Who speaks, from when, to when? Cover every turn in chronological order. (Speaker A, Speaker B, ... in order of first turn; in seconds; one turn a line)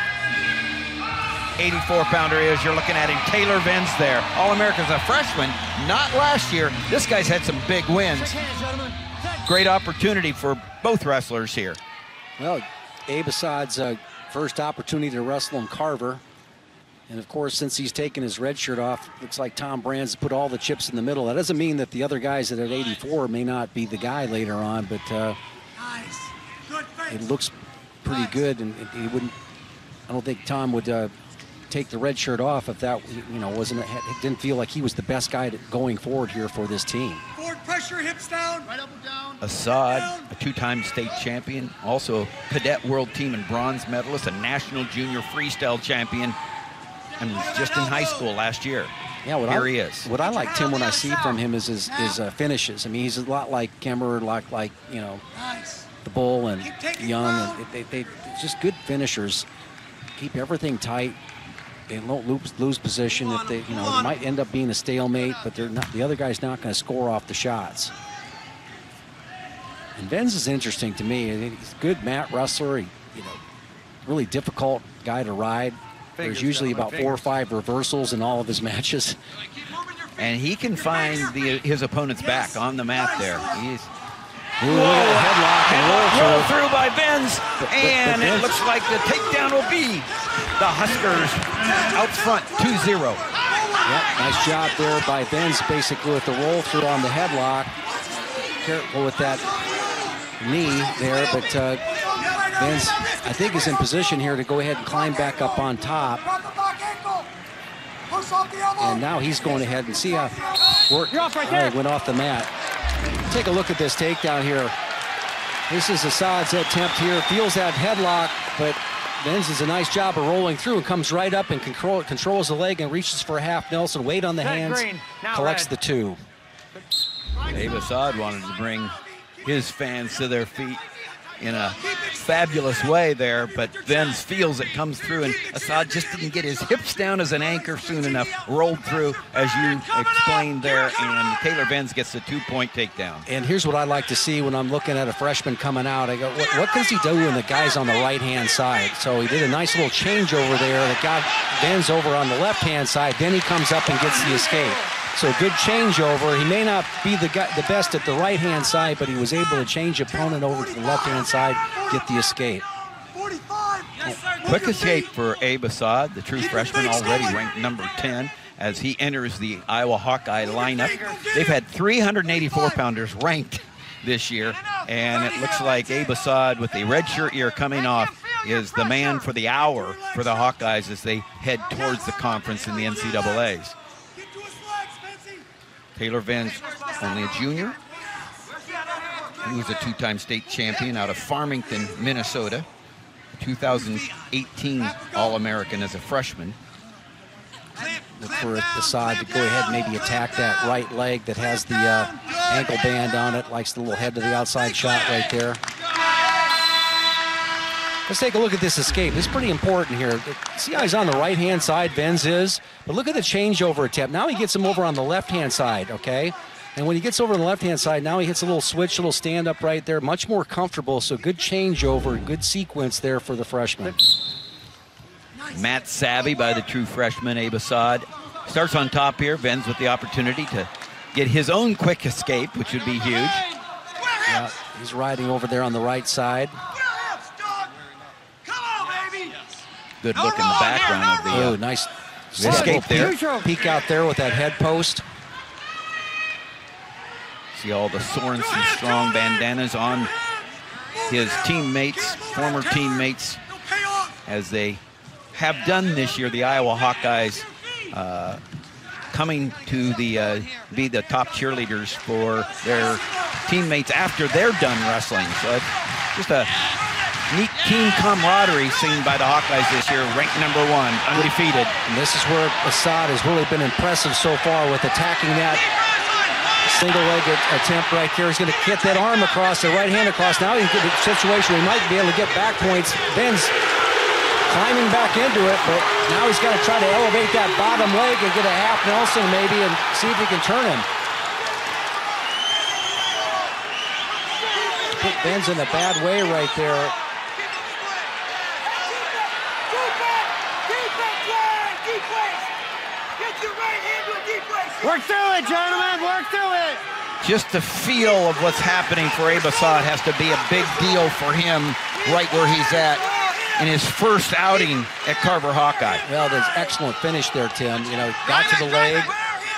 Speaker A: 1.6-8.5
Speaker B: 8.5-8.9
Speaker A: 9.3-11.8
Speaker C: 12.4-16.2
Speaker C: 17.1-25.4
Speaker C: 26.9-29.3
Speaker C: 30.1-31.1
Speaker C: 31.7-37.2
Speaker B: 37.8-38.7
Speaker A: 39.4-46.4
Speaker A: 47.2-48.9
Speaker C: 49.2-55.2
Speaker A: 49.5-50.1
Speaker C: 56.0-59.5
Speaker C: 60.2-61.2
Speaker C: 61.9-67.9
Speaker C: 70.0-73.4
Speaker C: 74.0-79.2
Speaker A: 76.2-77.2
Speaker A: 80.2-83.9
Speaker C: 84.6-86.5
Speaker A: 84.6-93.3
Speaker C: 87.6-88.5
Speaker C: 93.8-97.7
Speaker C: 98.6-99.5
Speaker C: 100.4-101.8
Speaker C: 102.4-106.3
Speaker C: 108.7-112.5
Speaker C: 113.3-114.7
Speaker C: 115.7-126.2
Speaker B: 124.6-125.5
Speaker A: 127.5-130.8
Speaker A: 131.4-143.3
Speaker C: 143.3-162.7
Speaker A: 164.4-183.8
Speaker A: 186.0-187.8
Speaker A: 189.4-192.7
Speaker A: 193.4-196.6
Speaker C: 197.8-205.6
Speaker C: 208.1-224.0
Speaker A: 225.5-233.4
Speaker C: 234.2-236.6
Speaker A: 240.0-241.6
Speaker C: 241.3-245.0
Speaker A: 242.4-243.2
Speaker B: 242.8-243.4
Speaker A: 247.5-250.1
Speaker A: 251.0-253.4
Speaker A: 254.2-254.8
Speaker A: 255.3-258.4
Speaker A: 259.1-266.5
Speaker A: 267.3-271.7
Speaker C: 271.9-275.6
Speaker C: 276.6-283.5
Speaker C: 284.5-290.9
Speaker C: 294.5-296.9
Speaker B: 303.6-306.8
Speaker A: 307.2-316.0
Speaker C: 316.1-319.2